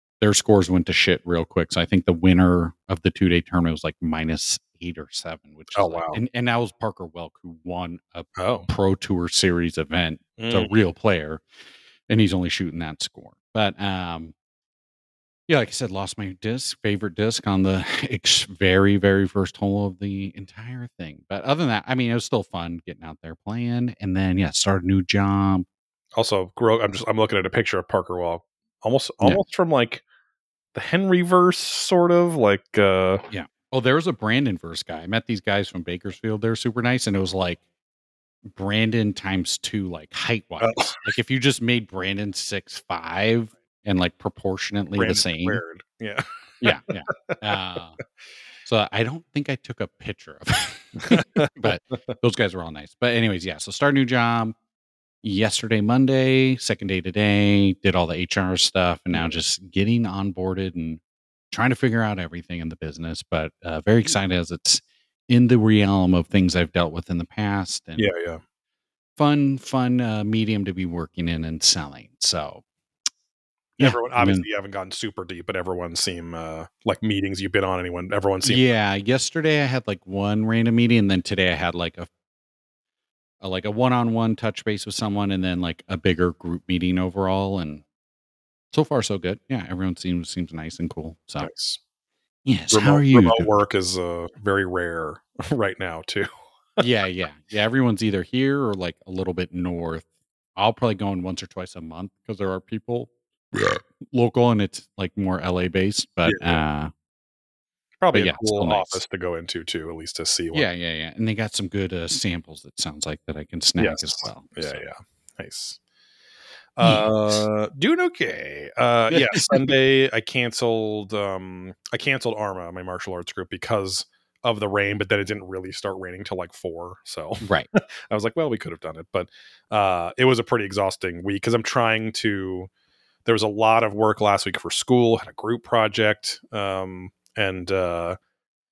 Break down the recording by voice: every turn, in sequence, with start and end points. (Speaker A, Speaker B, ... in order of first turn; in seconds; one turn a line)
Speaker A: 0.2-11.4
Speaker B: 5.7-6.2
Speaker B: 8.4-8.7
Speaker B: 10.4-10.7
Speaker A: 12.1-14.3
Speaker A: 15.5-25.7
Speaker B: 26.1-30.0
Speaker B: 30.7-33.2
Speaker A: 33.3-37.6
Speaker A: 38.5-45.6
Speaker B: 40.6-41.0
Speaker B: 45.0-46.7
Speaker A: 46.6-48.0
Speaker A: 48.6-54.5
Speaker B: 51.0-51.6
Speaker A: 55.2-68.1
Speaker B: 59.1-59.4
Speaker B: 68.0-68.4
Speaker A: 69.2-72.6
Speaker B: 73.8-78.6
Speaker A: 73.8-74.4
Speaker A: 78.4-82.1
Speaker A: 83.4-87.8
Speaker A: 88.7-91.5
Speaker B: 91.4-91.8
Speaker A: 92.4-93.5
Speaker B: 92.7-96.3
Speaker A: 96.8-106.9
Speaker B: 106.2-106.6
Speaker B: 108.0-110.7
Speaker A: 108.1-109.0
Speaker A: 110.5-114.8
Speaker B: 113.8-115.8
Speaker B: 116.8-132.7
Speaker A: 116.8-117.4
Speaker A: 119.1-119.7
Speaker A: 127.4-127.7
Speaker B: 133.2-138.2